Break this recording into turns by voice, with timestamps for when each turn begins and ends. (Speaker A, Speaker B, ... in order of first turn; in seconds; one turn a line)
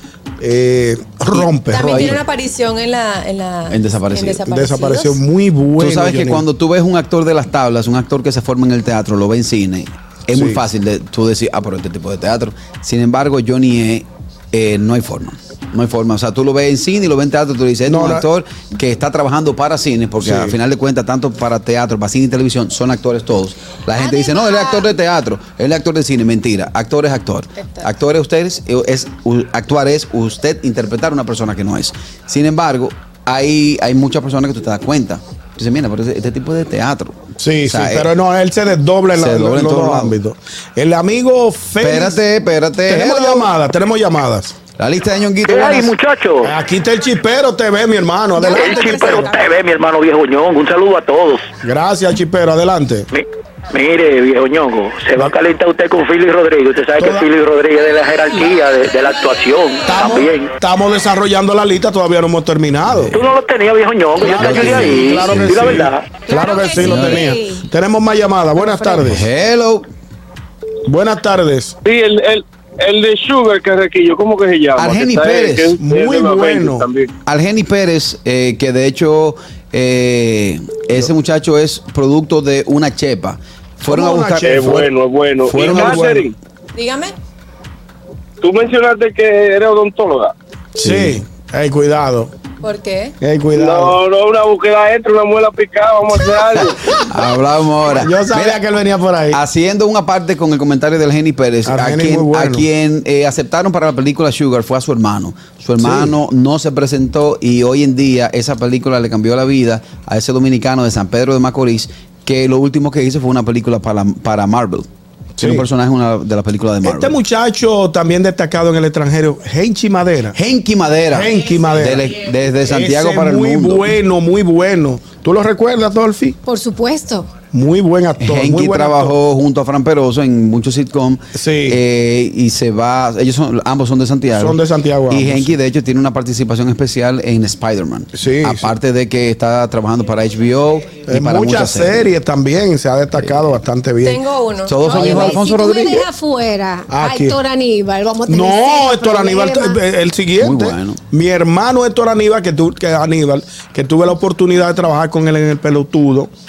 Speaker A: 0.4-2.2
Speaker B: 1.4-2.2
Speaker C: 1.7-5.2
Speaker B: 3.7-4.4
Speaker A: 4.5-6.5
Speaker B: 5.8-38.1
Speaker A: 10.3-10.6
Speaker A: 17.9-18.3
Speaker A: 20.2-20.6
Speaker D: 24.1-24.7
Speaker A: 37.4-42.2
Speaker B: 39.1-40.1
Speaker B: 41.8-43.5
Speaker A: 42.9-44.6
Speaker B: 44.8-46.0
Speaker E: 45.5-46.5
Speaker A: 46.4-49.3
Speaker D: 48.4-49.5
Speaker E: 48.5-51.5
Speaker A: 51.6-53.1
Speaker E: 53.1-60.5
Speaker A: 57.0-57.3
Speaker A: 59.9-63.1
Speaker B: 62.9-63.2
Speaker E: 63.1-66.2
Speaker A: 64.2-69.3
Speaker B: 64.3-65.9
Speaker D: 66.3-67.7
Speaker B: 66.8-67.3
Speaker D: 68.6-69.0
Speaker B: 69.1-69.9
Speaker A: 70.8-71.8
Speaker F: 71.8-77.1
Speaker B: 74.8-75.8
Speaker A: 75.8-76.9
Speaker B: 77.3-84.8
Speaker A: 83.8-84.9
Speaker F: 84.4-86.3
Speaker B: 85.5-86.2
Speaker A: 85.5-86.3
Speaker C: 86.8-87.1
Speaker F: 88.4-90.3
Speaker A: 90.8-92.3
Speaker B: 90.8-91.2
Speaker C: 92.6-93.2
Speaker A: 93.2-94.0
Speaker F: 93.5-96.9
Speaker B: 96.6-98.6
Speaker A: 97.9-99.4
Speaker B: 99.3-114.9
Speaker A: 101.7-102.7
Speaker A: 105.8-106.1
Speaker A: 115.4-115.7
Speaker B: 115.4-117.1
Speaker A: 116.8-120.4
Speaker B: 120.4-123.9
Speaker A: 121.1-126.4
Speaker D: 126.5-127.3
Speaker A: 127.5-129.2
Speaker B: 128.2-134.6
Speaker A: 131.3-131.8
Speaker A: 134.3-135.6
Speaker B: 135.1-142.1
Speaker A: 138.2-138.7
Speaker A: 141.1-144.2
Speaker B: 143.2-143.5
Speaker C: 144.0-145.3
Speaker B: 144.7-146.1
Speaker D: 144.8-149.8
Speaker A: 146.9-147.4
Speaker A: 148.3-156.3
Speaker B: 150.4-151.0